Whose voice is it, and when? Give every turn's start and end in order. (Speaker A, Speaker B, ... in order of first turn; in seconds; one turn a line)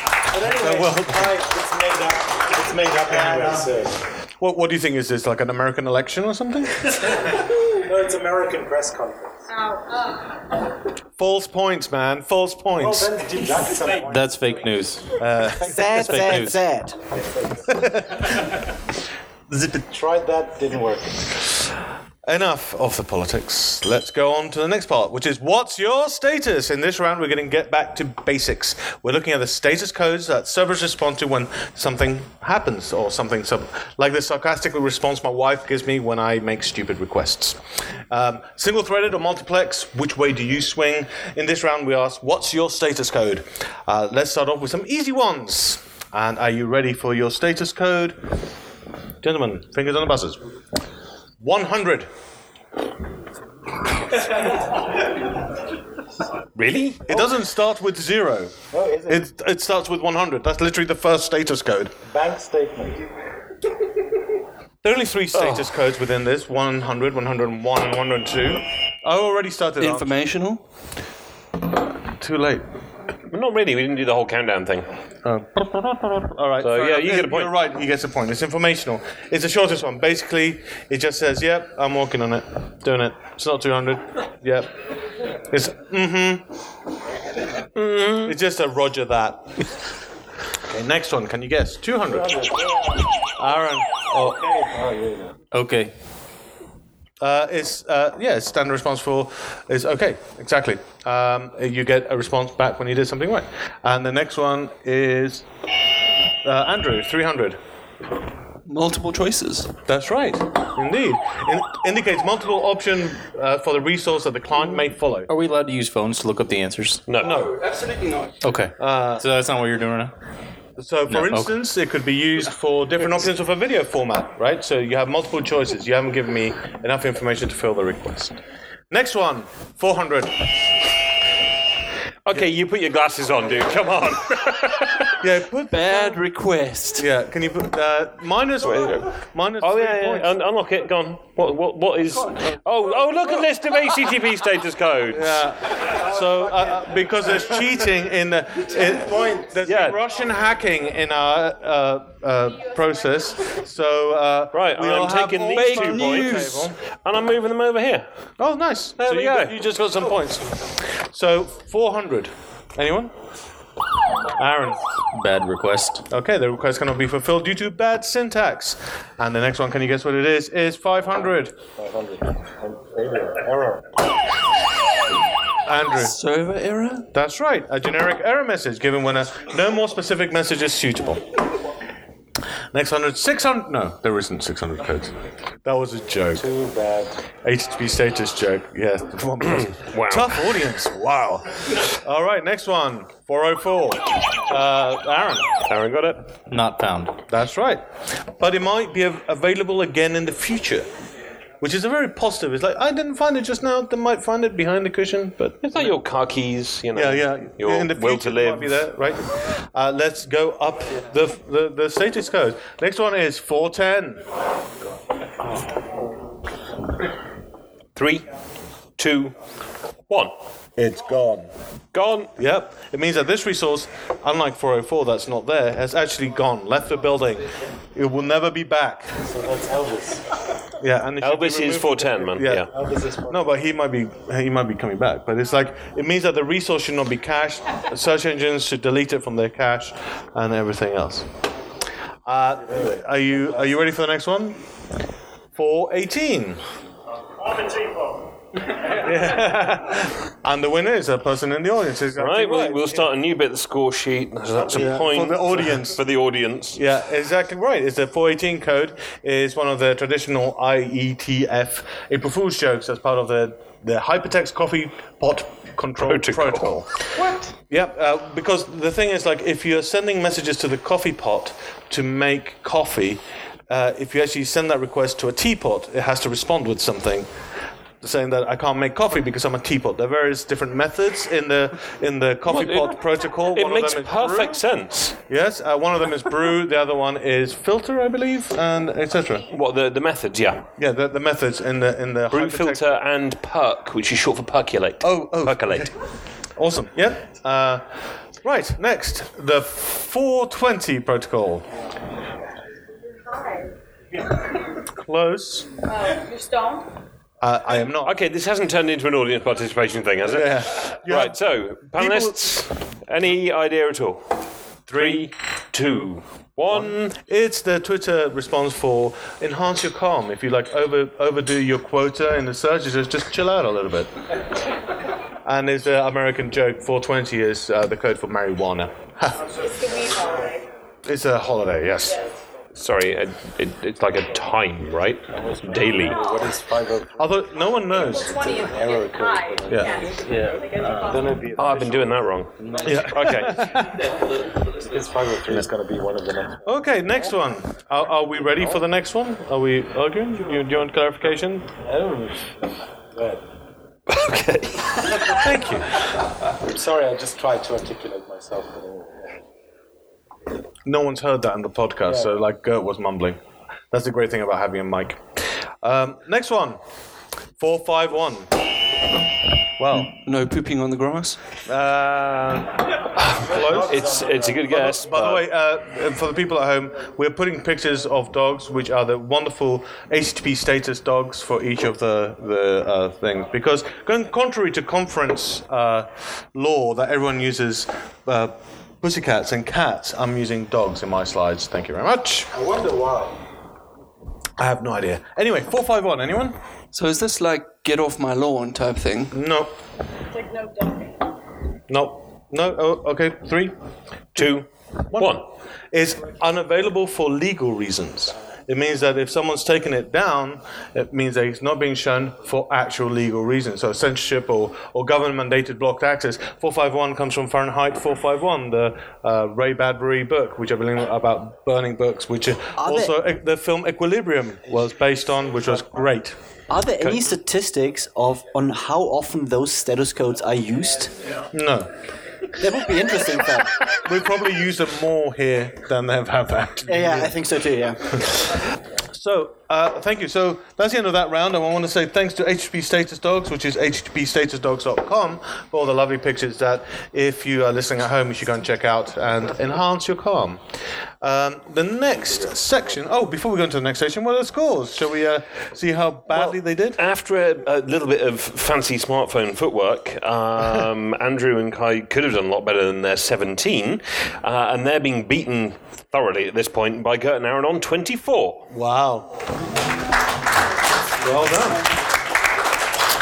Speaker A: 0.3-3.9
Speaker B: 0.4-1.3
Speaker B: 3.1-3.7
Speaker B: 4.4-7.1
Speaker A: 7.8-9.4
Speaker C: 9.5-10.3
Speaker B: 11.2-13.1
Speaker A: 12.8-14.4
Speaker D: 14.0-15.2
Speaker B: 15.2-15.8
Speaker A: 15.6-16.1
Speaker E: 15.6-17.0
Speaker D: 15.9-16.6
Speaker A: 17.1-17.7
Speaker B: 17.7-18.5
Speaker A: 19.5-21.3
Speaker B: 22.2-48.2
Speaker B: 49.2-50.4
Speaker B: 51.4-52.1
Speaker F: 56.5-57.1
Speaker B: 57.1-58.5
Speaker A: 58.7-59.2
Speaker B: 59.1-61.9
Speaker A: 62.0-63.0
Speaker B: 64.8-70.1
Speaker F: 65.3-65.7
Speaker G: 69.8-70.6
Speaker B: 72.2-72.7
Speaker F: 73.3-74.8
Speaker B: 75.2-84.7
Speaker F: 76.6-77.5
Speaker B: 85.5-86.4
Speaker F: 87.8-88.3
Speaker B: 88.2-89.7
Speaker B: 90.7-92.3
Speaker A: 92.1-93.0
Speaker B: 93.4-94.5
Speaker A: 94.2-95.3
Speaker D: 95.5-95.9
Speaker B: 97.2-105.5
Speaker B: 106.4-107.6
Speaker G: 108.7-109.7
Speaker B: 109.8-115.3
Speaker D: 115.3-117.0
Speaker F: 117.1-117.4
Speaker B: 117.2-117.6
Speaker G: 117.7-118.3
Speaker D: 118.4-120.1
Speaker B: 118.8-119.2
Speaker B: 120.8-128.4
Speaker D: 121.1-121.5
Speaker B: 128.9-130.4
Speaker F: 132.2-135.1
Speaker B: 135.2-136.2
Speaker G: 135.7-137.1
Speaker B: 137.0-140.3
Speaker F: 138.6-145.5
Speaker B: 142.2-142.6
Speaker B: 145.1-156.7
Speaker A: 148.9-149.5
Speaker F: 149.6-150.0
Speaker F: 154.5-156.3
Speaker G: 155.5-156.7
Speaker F: 156.8-158.1
Speaker B: 158.4-163.1
Speaker F: 159.0-159.5
Speaker B: 164.4-164.8
Speaker D: 165.1-166.0
Speaker B: 166.1-171.5
Speaker A: 171.8-173.8
Speaker B: 175.7-176.2
Speaker G: 176.0-177.1
Speaker B: 177.1-181.2
Speaker B: 182.7-186.5
Speaker A: 186.3-187.2
Speaker B: 187.4-195.5
Speaker F: 189.4-190.6
Speaker F: 195.6-196.3
Speaker D: 196.5-197.2
Speaker B: 197.3-200.9
Speaker B: 201.6-205.9
Speaker F: 205.6-208.8
Speaker B: 206.9-214.2
Speaker F: 217.9-218.3
Speaker F: 219.0-219.3
Speaker F: 220.1-220.3
Speaker B: 220.8-221.5
Speaker F: 221.9-222.3
Speaker B: 222.4-229.2
Speaker A: 229.2-230.2
Speaker B: 230.8-232.7
Speaker F: 231.2-232.7
Speaker A: 232.7-233.5
Speaker B: 233.3-241.3
Speaker B: 242.2-244.6
Speaker B: 245.5-246.6
Speaker B: 248.9-253.1
Speaker F: 252.2-256.8
Speaker B: 254.6-256.0
Speaker B: 256.8-267.1
Speaker F: 266.0-266.7
Speaker B: 267.7-277.3
Speaker B: 278.0-284.6
Speaker F: 282.5-283.0
Speaker F: 283.5-285.2
Speaker B: 285.3-289.4
Speaker F: 289.5-290.6
Speaker B: 290.8-292.8
Speaker F: 292.3-295.9
Speaker B: 295.0-295.9
Speaker B: 296.6-301.7
Speaker C: 303.2-303.7
Speaker B: 304.9-305.8
Speaker C: 305.8-306.9
Speaker B: 307.4-308.1
Speaker F: 308.0-314.2
Speaker B: 310.3-311.4
Speaker B: 311.9-312.4
Speaker B: 314.9-315.3
Speaker F: 314.9-317.1
Speaker B: 316.7-324.1
Speaker B: 325.4-329.5
Speaker C: 329.4-330.6
Speaker B: 331.0-332.2
Speaker F: 332.7-336.2
Speaker A: 335.3-337.4
Speaker B: 337.2-338.4
Speaker C: 337.9-341.4
Speaker A: 338.1-343.5
Speaker B: 339.7-340.1
Speaker F: 341.5-342.5
Speaker B: 342.8-344.1
Speaker F: 343.1-343.4
Speaker A: 344.8-346.8
Speaker B: 346.6-351.7
Speaker A: 351.8-353.4
Speaker F: 354.1-355.4
Speaker B: 355.2-356.0
Speaker A: 356.6-359.4
Speaker B: 360.8-363.4
Speaker A: 362.0-362.3
Speaker B: 363.9-366.8
Speaker B: 367.6-368.5
Speaker B: 369.8-370.1
Speaker G: 369.9-371.4
Speaker B: 371.6-374.1
Speaker F: 373.2-375.4
Speaker A: 373.4-374.7
Speaker B: 374.7-392.5
Speaker A: 392.5-393.4
Speaker B: 394.6-396.6
Speaker G: 396.9-399.3
Speaker B: 399.3-399.7
Speaker C: 400.3-401.2
Speaker B: 401.9-403.7
Speaker B: 404.3-426.4
Speaker F: 404.4-405.4
Speaker E: 422.8-423.1
Speaker E: 426.7-431.1
Speaker B: 427.0-427.3
Speaker B: 431.5-431.9
Speaker E: 432.6-433.7
Speaker B: 434.0-437.3
Speaker E: 436.9-438.2
Speaker B: 439.1-457.0
Speaker F: 456.3-468.7
Speaker B: 468.7-469.3
Speaker B: 471.2-471.8